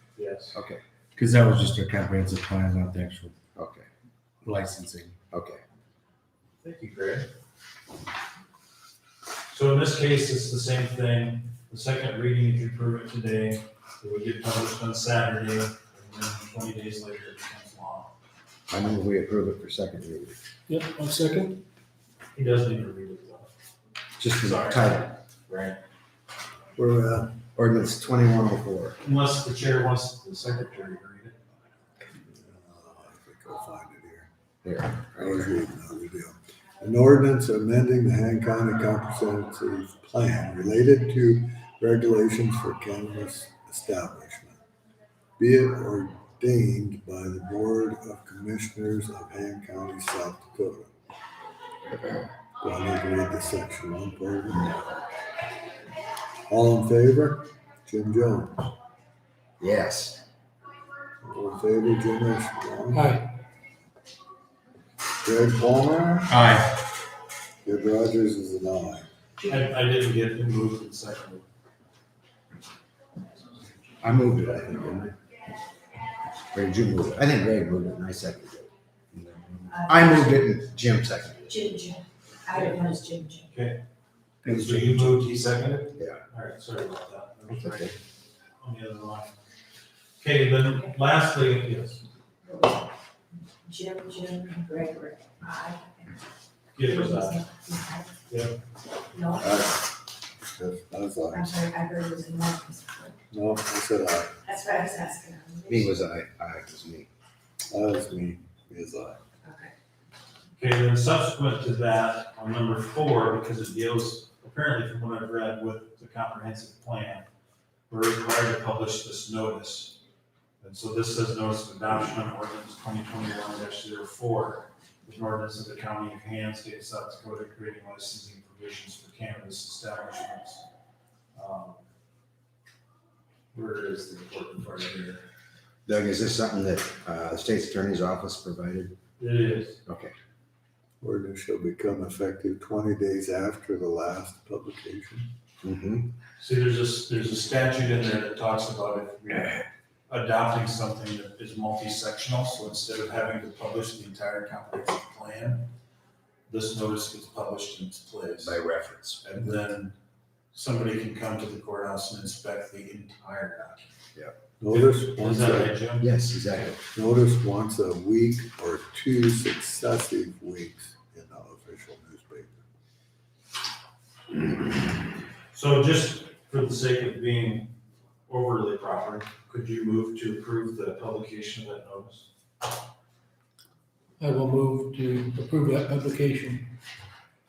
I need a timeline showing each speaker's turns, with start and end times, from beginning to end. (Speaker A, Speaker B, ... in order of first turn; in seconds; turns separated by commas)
Speaker A: 0.2-0.6, Speaker B: 0.5-0.8, Speaker C: 1.2-3.3, Speaker B: 3.5-3.9, Speaker C: 4.4-5.2, Speaker B: 5.3-5.6, Speaker A: 6.6-7.3, Speaker A: 9.5-18.1, Speaker B: 18.7-20.4, Speaker D: 20.7-21.6, Speaker A: 22.3-23.5, Speaker B: 24.2-25.2, Speaker A: 24.4-25.8, Speaker E: 26.7-27.4, Speaker B: 27.6-29.0, Speaker A: 29.0-31.4, Speaker E: 32.3-34.3, Speaker B: 34.6-35.5, Speaker E: 35.2-44.6, Speaker E: 45.4-50.9, Speaker B: 51.9-52.3, Speaker E: 52.6-54.9, Speaker E: 56.5-58.7, Speaker B: 59.6-60.2, Speaker E: 61.2-63.1, Speaker D: 62.9-63.3, Speaker E: 65.2-66.4, Speaker A: 66.3-66.7, Speaker E: 67.6-69.0, Speaker A: 69.4-71.4, Speaker B: 74.0-75.1, Speaker B: 76.5-81.7, Speaker A: 82.5-83.8, Speaker A: 84.4-88.0, Speaker C: 84.5-85.0, Speaker B: 86.0-86.2, Speaker B: 87.5-87.9, Speaker A: 88.6-89.3, Speaker A: 90.2-92.0, Speaker F: 93.7-95.8, Speaker A: 96.7-97.5, Speaker F: 97.7-98.0, Speaker A: 98.3-98.5, Speaker E: 99.3-101.7, Speaker F: 101.9-103.1, Speaker E: 103.3-104.3, Speaker F: 104.6-105.6, Speaker B: 105.7-107.1, Speaker E: 107.7-109.2, Speaker A: 110.6-117.2, Speaker A: 117.9-120.0, Speaker A: 120.6-130.6, Speaker A: 131.3-131.8, Speaker A: 133.5-135.2, Speaker B: 135.9-138.9, Speaker A: 139.2-139.8, Speaker B: 139.9-140.1, Speaker E: 141.0-145.3, Speaker B: 145.6-146.1, Speaker A: 146.4-155.7, Speaker A: 156.5-158.6, Speaker B: 158.4-159.3, Speaker A: 159.2-159.9, Speaker A: 160.5-163.9, Speaker E: 164.6-165.8, Speaker A: 164.7-166.8, Speaker B: 166.0-166.8, Speaker E: 166.9-172.6, Speaker A: 175.5-177.7, Speaker A: 178.3-182.3, Speaker D: 184.2-186.8